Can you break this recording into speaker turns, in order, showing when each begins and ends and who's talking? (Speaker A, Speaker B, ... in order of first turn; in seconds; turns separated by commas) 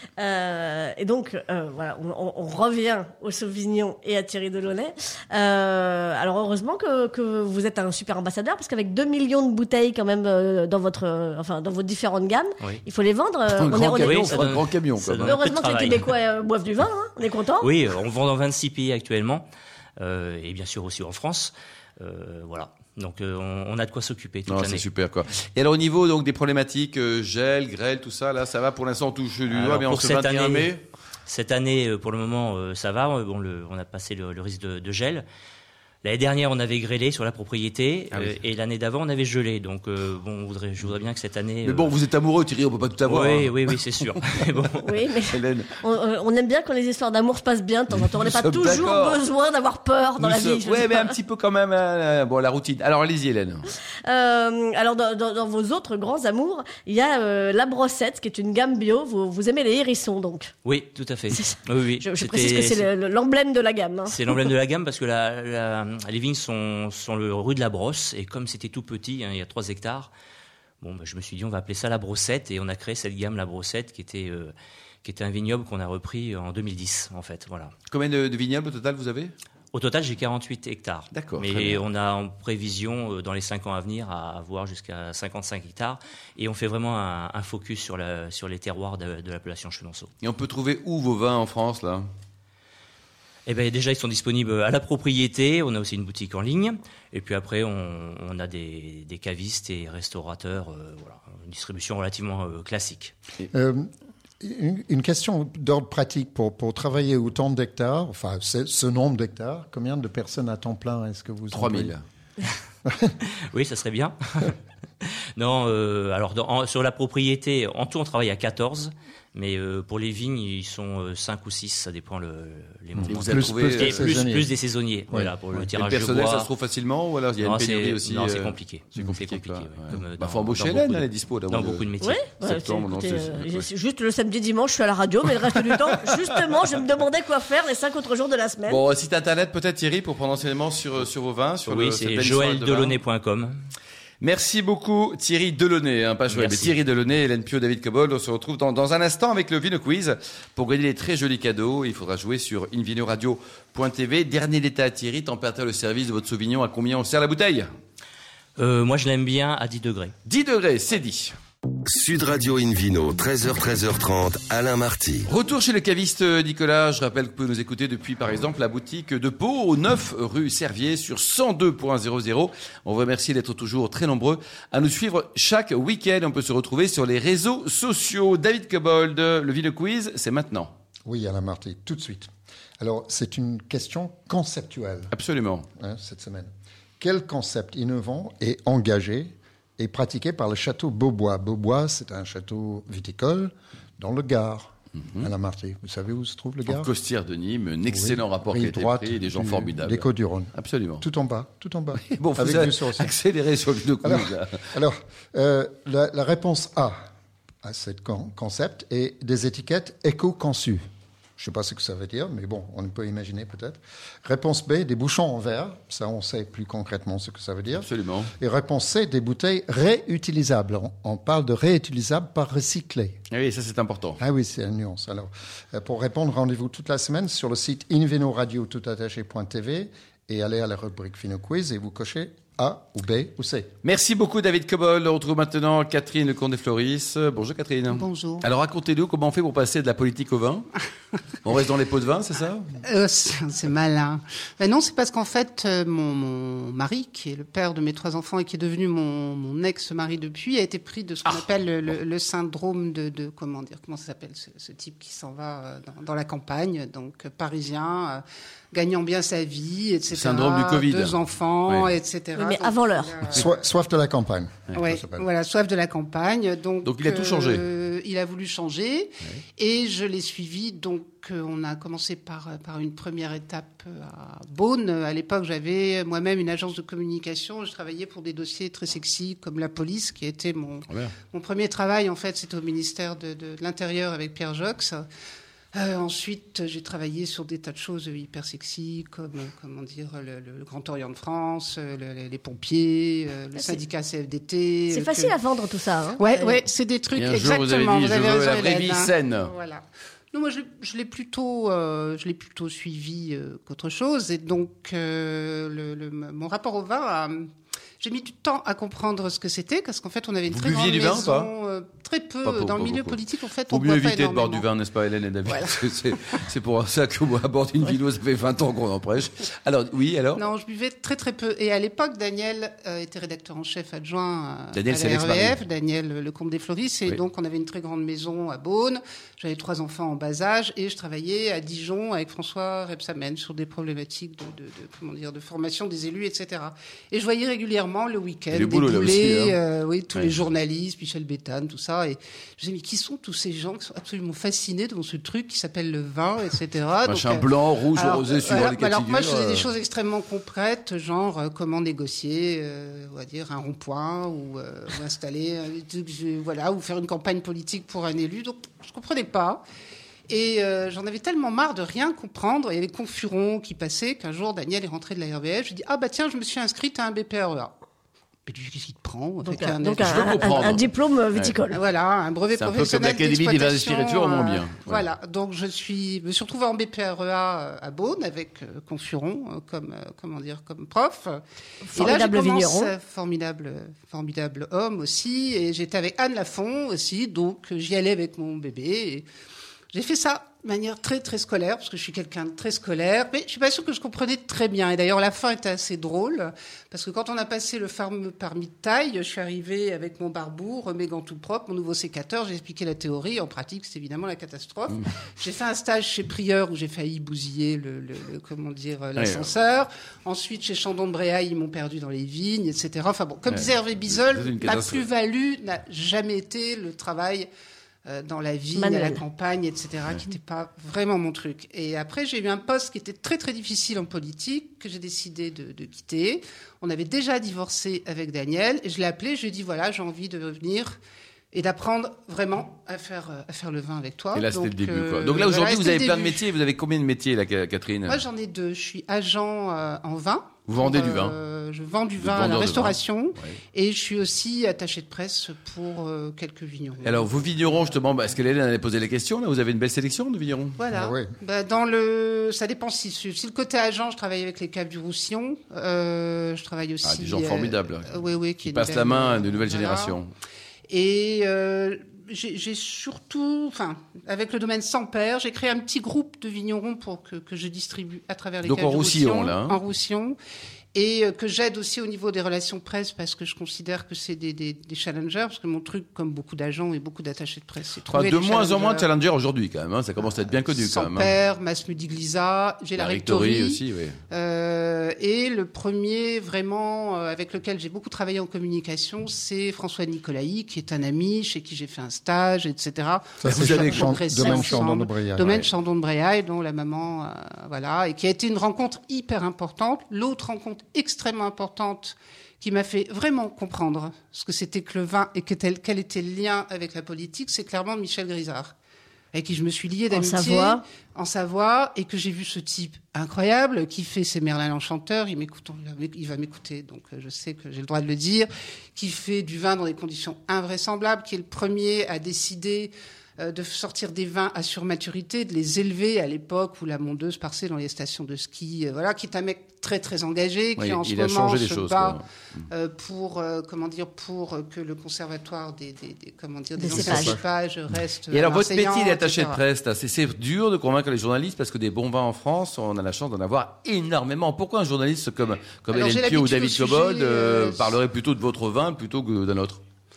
Speaker A: 0.2-14.5, Speaker B: 13.5-15.4, Speaker C: 14.1-16.1, Speaker A: 15.3-17.7, Speaker C: 17.6-24.9, Speaker B: 24.5-30.8, Speaker C: 29.5-35.3, Speaker C: 36.0-41.9, Speaker B: 38.1-38.4, Speaker B: 41.6-44.4, Speaker C: 43.0-44.9, Speaker A: 44.8-51.1, Speaker B: 45.3-45.7, Speaker B: 48.0-49.2, Speaker B: 50.2-53.6, Speaker A: 54.0-60.5, Speaker C: 60.6-62.9, Speaker A: 61.3-64.5, Speaker C: 64.1-70.1, Speaker C: 70.8-77.8, Speaker B: 77.9-79.3, Speaker C: 79.7-90.1, Speaker B: 81.1-81.8, Speaker B: 90.2-92.0, Speaker C: 93.5-103.1, Speaker D: 103.5-103.9, Speaker D: 104.4-111.9, Speaker B: 111.5-112.0, Speaker D: 112.8-113.1, Speaker C: 113.2-126.5, Speaker B: 123.1-124.2, Speaker D: 123.2-124.5, Speaker D: 125.1-125.6, Speaker B: 125.7-133.7, Speaker C: 127.4-132.1, Speaker A: 132.0-138.8, Speaker B: 138.7-143.0, Speaker C: 141.7-143.6, Speaker B: 144.2-157.7, Speaker C: 146.3-146.8, Speaker C: 158.6-160.2, Speaker B: 160.2-161.3, Speaker E: 161.9-165.3, Speaker B: 165.3-180.7, Speaker D: 181.1-185.1, Speaker B: 185.1-185.7, Speaker D: 185.8-186.5, Speaker D: 187.0-196.9, Speaker B: 196.7-201.0, Speaker D: 197.9-203.2, Speaker B: 202.0-204.6, Speaker D: 204.0-206.9, Speaker D: 207.6-210.8, Speaker D: 211.4-223.2, Speaker B: 217.7-218.3, Speaker B: 223.3-224.2, Speaker D: 224.2-233.7, Speaker B: 233.8-240.7, Speaker F: 237.9-238.5, Speaker B: 241.4-242.7, Speaker F: 242.9-263.5, Speaker B: 260.1-261.9, Speaker A: 262.4-263.2, Speaker D: 263.3-265.2, Speaker F: 264.7-285.1, Speaker B: 266.8-267.7, Speaker B: 280.9-281.1, Speaker F: 285.7-295.3, Speaker A: 294.9-296.6, Speaker F: 296.1-307.5, Speaker B: 297.1-299.5, Speaker F: 308.0-314.7, Speaker B: 310.4-311.5, Speaker B: 312.4-320.4, Speaker F: 320.4-359.6, Speaker B: 324.7-325.6, Speaker B: 338.5-339.6, Speaker B: 340.1-340.4, Speaker B: 347.0-349.7, Speaker F: 360.3-367.7, Speaker F: 368.4-370.5, Speaker A: 369.4-371.8, Speaker B: 370.0-371.6, Speaker F: 371.7-381.4, Speaker B: 372.5-375.0, Speaker A: 381.9-382.9, Speaker F: 381.9-389.3, Speaker F: 389.9-417.5, Speaker B: 409.1-409.5, Speaker B: 413.4-415.1, Speaker F: 418.0-431.0, Speaker A: 418.7-419.2, Speaker F: 431.5-436.5, Speaker B: 434.3-438.2, Speaker F: 438.1-448.0, Speaker B: 440.6-441.4, Speaker B: 442.1-443.6, Speaker B: 447.0-450.8, Speaker F: 450.8-460.2, Speaker D: 450.9-451.3, Speaker B: 457.0-458.1, Speaker B: 458.6-460.3, Speaker F: 460.9-470.4, Speaker B: 468.6-469.8, Speaker F: 470.9-479.1, Speaker B: 478.1-481.3, Speaker F: 480.2-508.7, Speaker B: 482.9-484.2, Speaker D: 493.4-495.7, Speaker B: 493.4-494.7, Speaker F: 509.3-532.2, Speaker A: 510.1-510.8, Speaker B: 530.8-532.6, Speaker F: 532.7-539.6, Speaker A: 536.8-537.4, Speaker D: 536.9-537.4, Speaker B: 538.3-549.8, Speaker F: 545.9-547.9